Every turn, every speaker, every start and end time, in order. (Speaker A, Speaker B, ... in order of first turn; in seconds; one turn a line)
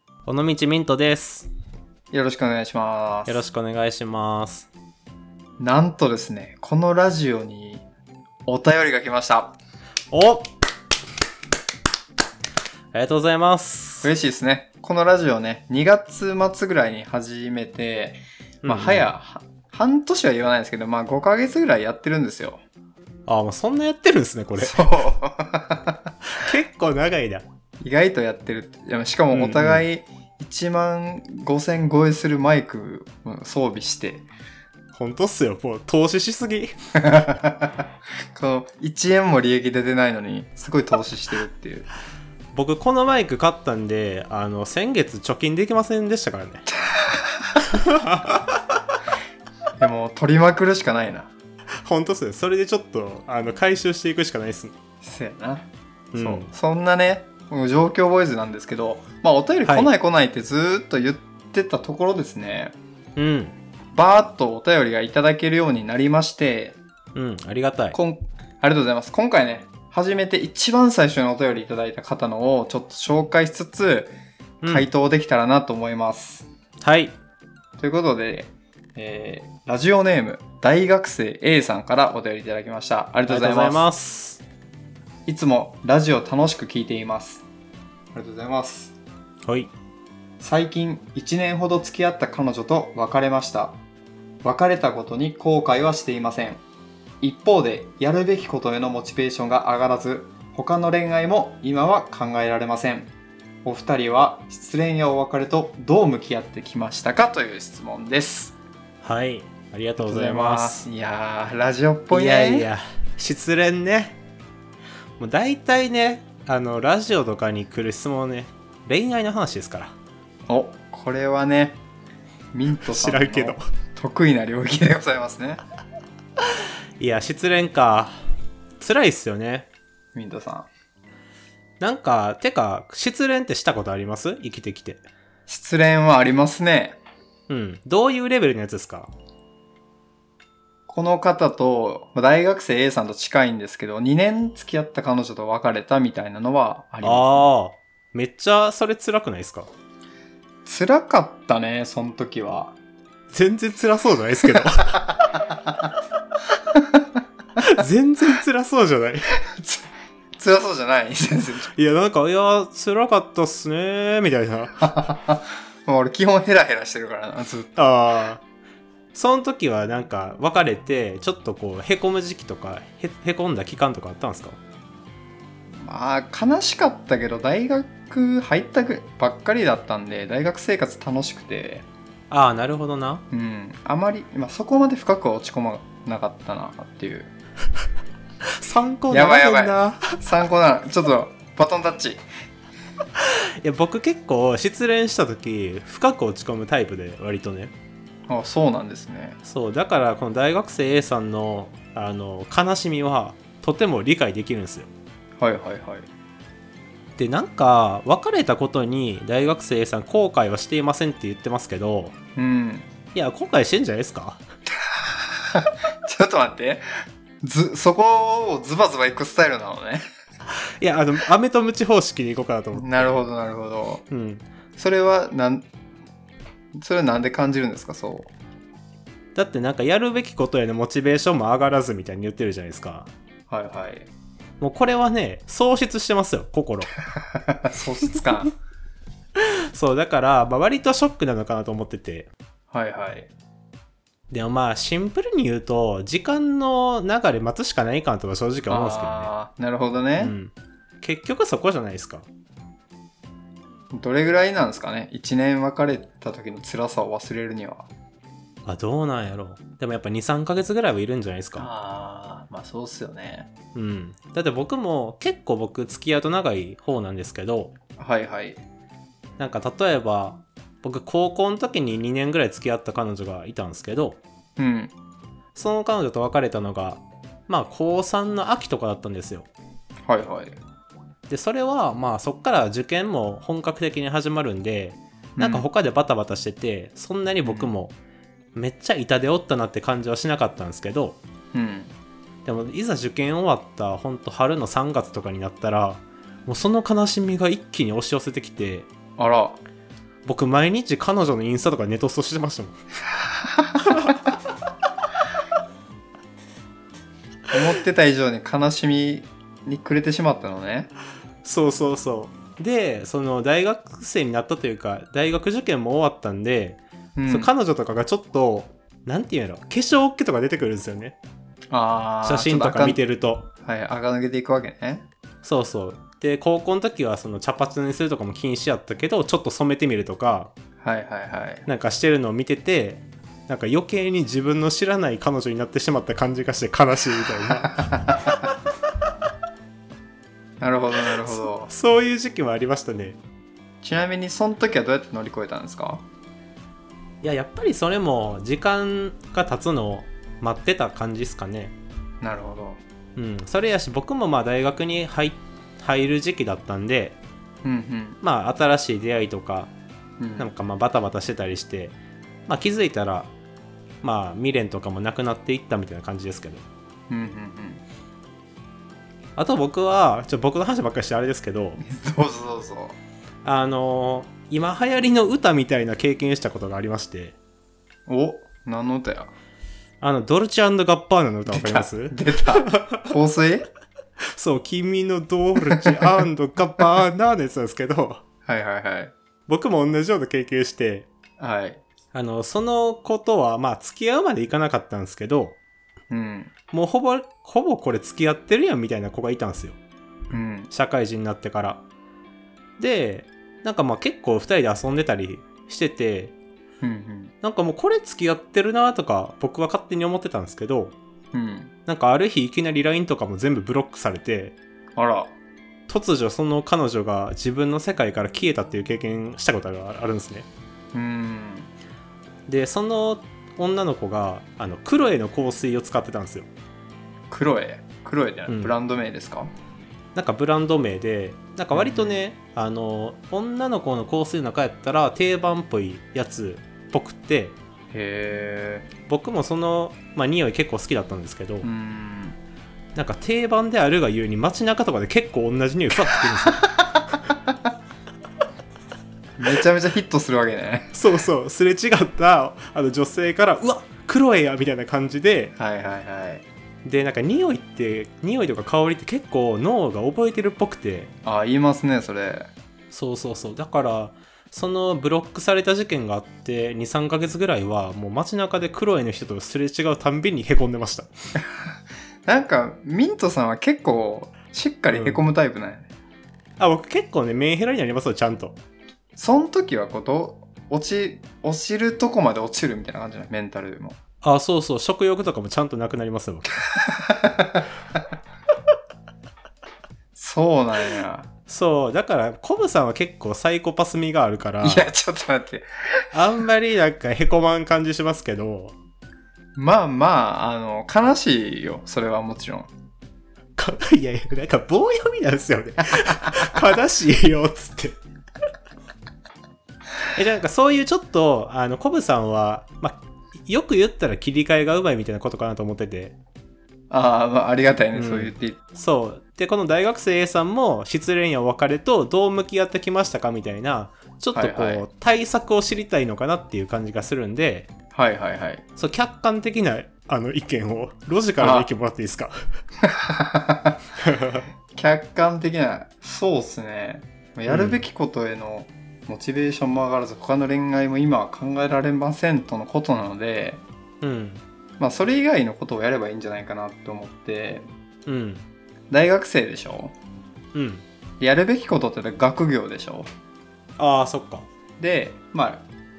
Speaker A: 0.2-1.5
Speaker B: 2.1-3.4
Speaker A: 3.2-4.7
Speaker B: 5.6-7.8
Speaker B: 8.5-9.6
Speaker A: 10.1-10.5
Speaker A: 12.9-14.1
Speaker B: 14.0-22.6
Speaker A: 18.6-19.1
Speaker A: 23.3-24.9
Speaker B: 24.6-26.1
Speaker A: 26.3-27.4
Speaker B: 27.8-34.3
Speaker A: 29.3-29.8
Speaker A: 35.0-36.7
Speaker B: 37.0-37.8
Speaker B: 38.3-41.9
Speaker A: 42.5-46.6
Speaker B: 46.9-47.6
Speaker A: 47.7-48.6
Speaker B: 49.8-51.3
Speaker A: 51.8-54.7
Speaker B: 55.0-55.6
Speaker A: 56.1-56.5
Speaker B: 56.1-62.7
Speaker A: 59.6-59.9
Speaker A: 63.1-63.5
Speaker B: 63.9-66.8
Speaker A: 67.1-68.0
Speaker B: 67.9-74.1
Speaker A: 74.6-74.9
Speaker B: 74.6-76.5
Speaker A: 76.8-77.2
Speaker B: 77.8-83.9
Speaker A: 83.3-84.4
Speaker B: 85.3-87.4
Speaker B: 88.1-88.9
Speaker A: 89.4-89.7
Speaker B: 90.4-93.8
Speaker B: 94.4-96.6
Speaker B: 97.2-103.1
Speaker B: 103.6-108.5
Speaker A: 109.0-110.8
Speaker B: 110.0-112.7
Speaker A: 112.1-114.2
Speaker A: 115.2-119.9
Speaker B: 120.5-121.8
Speaker B: 122.5-125.6
Speaker A: 122.8-123.6
Speaker A: 127.0-128.1
Speaker A: 128.8-129.7
Speaker B: 130.1-130.7
Speaker A: 131.8-135.0
Speaker B: 135.5-137.0
Speaker A: 137.5-139.1
Speaker B: 140.9-147.5
Speaker A: 147.0-149.7
Speaker B: 150.6-152.7
Speaker A: 153.3-155.0
Speaker B: 154.8-155.7
Speaker B: 156.7-157.1
Speaker A: 157.6-159.3
Speaker B: 159.4-159.9
Speaker B: 160.4-161.7
Speaker A: 161.7-164.9
Speaker B: 164.8-167.7
Speaker A: 167.8-168.4
Speaker A: 169.1-174.6
Speaker B: 175.8-181.8
Speaker A: 182.3-183.2
Speaker B: 183.3-187.3
Speaker A: 188.6-190.2
Speaker B: 189.1-192.2
Speaker A: 193.2-197.7
Speaker B: 198.3-199.4
Speaker A: 199.4-204.9
Speaker B: 205.4-206.1
Speaker A: 207.2-212.1
Speaker B: 212.3-212.9
Speaker A: 213.1-214.4
Speaker B: 214.9-216.8
Speaker B: 217.4-220.0
Speaker A: 220.8-223.1
Speaker B: 222.7-224.0
Speaker A: 224.1-224.4
Speaker B: 224.8-225.7
Speaker B: 226.7-228.3
Speaker A: 229.3-233.1
Speaker B: 233.5-234.1
Speaker A: 234.6-236.9
Speaker B: 237.2-238.5
Speaker A: 239.4-242.3
Speaker B: 242.7-243.3
Speaker A: 244.3-249.3
Speaker B: 248.7-250.3
Speaker A: 250.2-252.3
Speaker B: 253.9-257.9
Speaker A: 258.6-261.7
Speaker B: 261.6-263.5
Speaker A: 263.7-267.7
Speaker B: 268.0-268.6
Speaker A: 269.4-274.2
Speaker B: 274.6-274.9
Speaker A: 275.5-279.5
Speaker B: 280.1-280.6
Speaker A: 281.3-287.9
Speaker B: 285.4-285.7
Speaker B: 287.4-287.7
Speaker A: 288.5-291.2
Speaker B: 291.5-291.9
Speaker A: 292.4-298.9
Speaker B: 299.2-299.6
Speaker A: 300.2-302.7
Speaker B: 307.5-310.9
Speaker A: 311.4-321.2
Speaker B: 317.2-317.5
Speaker B: 321.7-323.0
Speaker A: 322.2-323.5
Speaker B: 323.6-325.0
Speaker A: 325.4-330.5
Speaker B: 330.8-331.6
Speaker A: 331.6-337.9
Speaker B: 337.8-338.3
Speaker B: 340.6-341.7
Speaker A: 341.2-343.2
Speaker B: 343.8-346.0
Speaker A: 347.2-351.7
Speaker B: 352.2-352.8
Speaker A: 353.1-357.2
Speaker B: 357.6-358.2
Speaker A: 358.2-359.7
Speaker B: 360.2-360.5
Speaker A: 360.4-361.9
Speaker A: 362.5-363.3
Speaker A: 364.0-366.6
Speaker B: 367.1-367.8
Speaker A: 369.4-371.8
Speaker B: 371.8-372.9
Speaker A: 373.4-377.4
Speaker B: 378.1-379.3
Speaker A: 380.0-383.1
Speaker B: 381.5-383.7
Speaker A: 384.4-388.2
Speaker B: 385.7-386.0
Speaker B: 388.4-389.1
Speaker A: 389.5-391.1
Speaker B: 391.4-391.8
Speaker A: 392.1-395.6
Speaker B: 396.1-396.5
Speaker A: 396.7-399.8
Speaker B: 400.3-400.7
Speaker A: 400.7-401.8
Speaker A: 402.8-406.3
Speaker B: 406.8-407.3
Speaker A: 407.4-410.9
Speaker B: 411.3-411.7
Speaker A: 411.9-414.6
Speaker B: 415.0-415.3
Speaker A: 415.9-420.5
Speaker B: 420.9-421.7
Speaker A: 422.5-426.5
Speaker B: 427.3-429.5
Speaker A: 428.5-428.7
Speaker A: 430.1-437.6
Speaker B: 431.7-432.2
Speaker B: 437.9-438.9
Speaker A: 439.1-441.7
Speaker B: 441.6-442.4
Speaker A: 442.9-446.6
Speaker B: 446.3-447.3
Speaker B: 449.4-451.0
Speaker A: 450.9-455.5
Speaker B: 455.6-456.4
Speaker A: 456.8-461.1
Speaker B: 461.2-462.5
Speaker A: 462.9-471.1
Speaker B: 472.3-475.9
Speaker A: 474.9-475.2
Speaker A: 476.6-478.6
Speaker B: 479.2-484.0
Speaker A: 484.2-486.6
Speaker B: 486.7-487.7
Speaker B: 490.1-491.3
Speaker A: 491.5-494.9
Speaker B: 494.6-495.7
Speaker A: 496.1-498.7
Speaker B: 499.6-502.7
Speaker A: 503.6-508.0
Speaker A: 510.1-516.1
Speaker B: 516.9-518.6
Speaker A: 517.9-527.7
Speaker B: 524.3-524.8
Speaker B: 527.9-528.6
Speaker A: 528.8-532.3
Speaker B: 531.4-531.7
Speaker B: 532.8-533.8
Speaker A: 534.0-534.4
Speaker B: 534.7-543.6
Speaker A: 537.5-537.8
Speaker A: 544.0-544.4
Speaker B: 544.8-547.7
Speaker A: 548.1-548.4
Speaker B: 548.9-549.9
Speaker A: 550.5-550.8
Speaker B: 551.2-553.1
Speaker A: 553.8-554.5
Speaker B: 554.8-555.6